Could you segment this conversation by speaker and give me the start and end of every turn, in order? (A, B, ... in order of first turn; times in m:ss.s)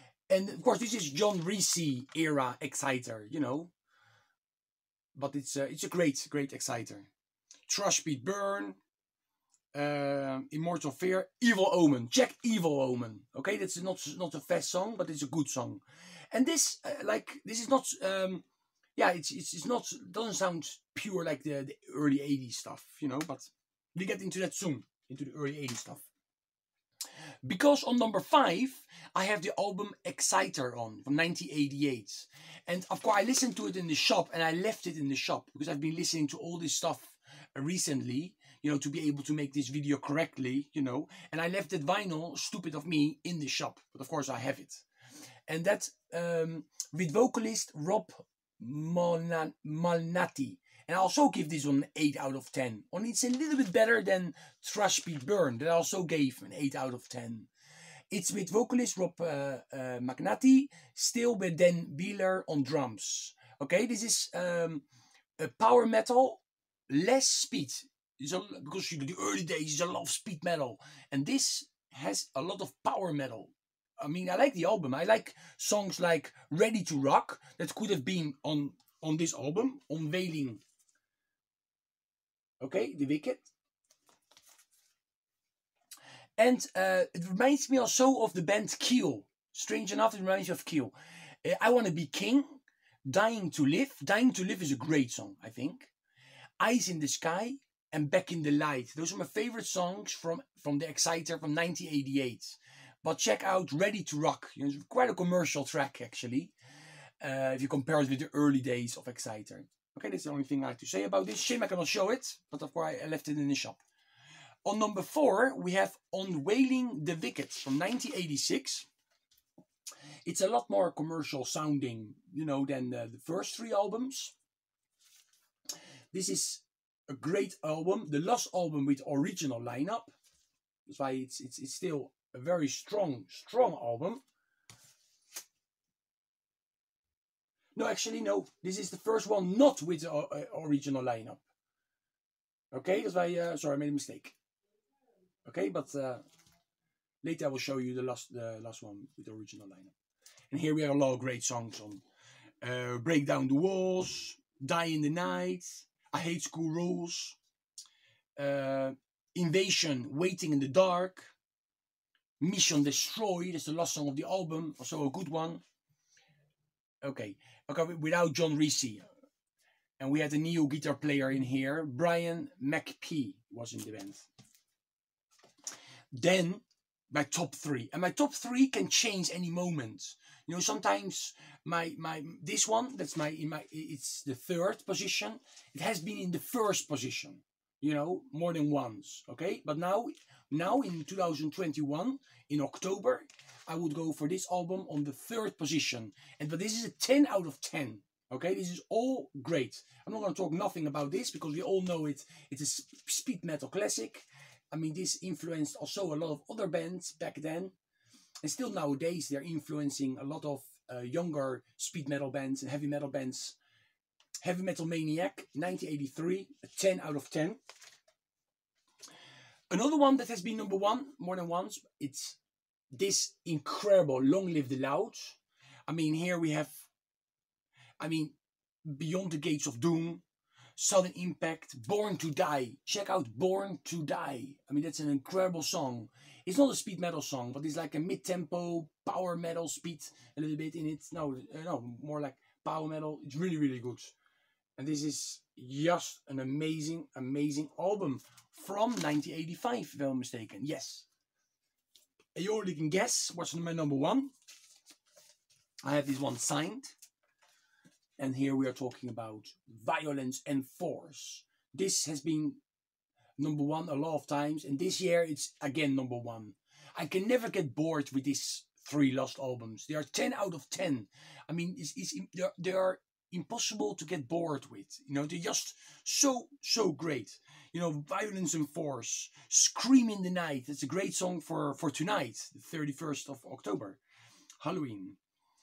0:00.3-0:03.7 A
0:05.1-0:07.1 A
0:07.7-0:08.8 A
0:09.7-0:18.4 A
0:19.0-0:26.1 A
0:27.4-0:44.8 A
0:45.5-0:57.5 A
0:58.1-1:04.8 A
1:05.4-1:20.6 A
1:22.6-1:23.5 A
1:26.4-1:30.9 A
1:31.4-1:35.9 A
1:36.6-1:46.5 A
1:47.2-1:53.8 A
1:54.6-1:58.9 A
2:00.2-2:04.3 A
2:06.1-2:10.1 A
2:10.9-2:14.2 A
2:17.8-2:21.4 A
2:22.7-2:24.3 A
2:25.4-2:26.2 A
2:27.2-2:29.9 A
2:30.5-2:32.0 A
2:32.6-2:37.4 A
2:38.4-2:41.3 A
2:42.4-2:45.6 A
2:47.0-2:49.1 A
2:50.0-2:54.3 A
2:56.1-3:27.7 A
3:28.4-3:33.6 A
3:34.4-3:37.6 A
3:39.7-3:42.4 A
3:42.9-3:46.8 A
3:48.0-3:50.2 A
3:50.8-4:04.1 A
4:04.8-4:11.1 A
4:12.3-4:14.3 A
4:15.8-4:17.0 A
4:18.2-4:22.6 A
4:23.4-4:44.0 A
4:44.6-4:45.2 A